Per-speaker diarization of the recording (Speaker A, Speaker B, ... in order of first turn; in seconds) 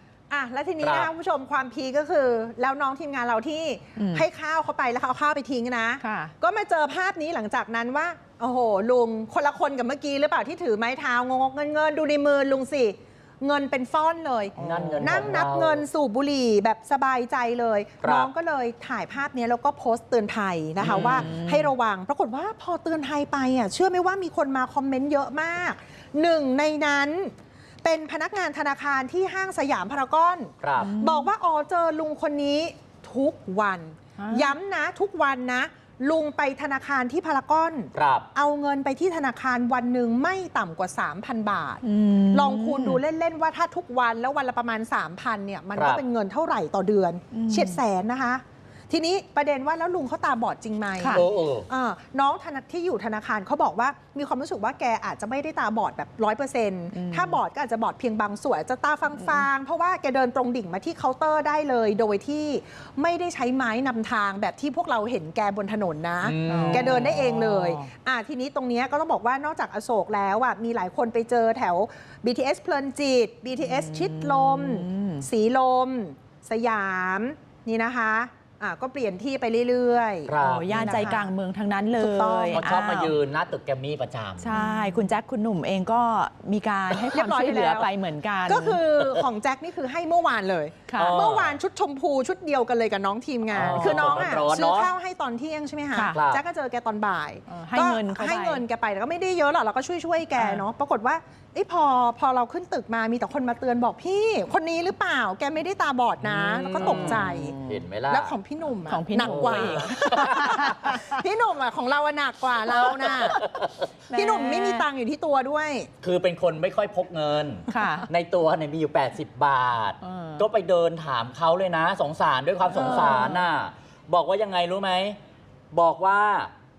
Speaker A: 0.3-81.3, 82.0-82.7, 84.5-85.1, 87.1-87.9, 88.4-107.6, 108.1-113.5, 114.1-115.9, 122.7-123.4
Speaker B: 0.8-1.1, 14.6-15.8, 18.0-18.3, 20.8-21.3, 30.6-30.9, 37.9-38.3, 45.8-46.0, 51.1-51.7, 66.2-67.2, 80.2-81.0, 82.5-84.5, 91.0-91.6, 93.5-94.9, 96.1-96.4, 106.2-108.3, 109.2-110.9, 112.8-113.8, 116.0-125.2, 125.7-126.5
Speaker C: 4.0-4.2, 6.0-6.3, 14.6-15.1, 20.8-21.7, 30.8-31.3, 34.2-34.5, 41.8-43.0, 47.3-47.8, 51.0-51.3, 56.9-57.4, 66.4-67.9, 73.6-75.2, 80.4-83.2, 84.4-88.8, 90.9-91.2, 93.8-94.1, 95.9-96.2, 97.5-98.6, 100.4-100.6, 106.8-107.8, 108.9-111.2, 114.1-114.9, 117.7-118.1, 120.0-120.5, 122.9-123.4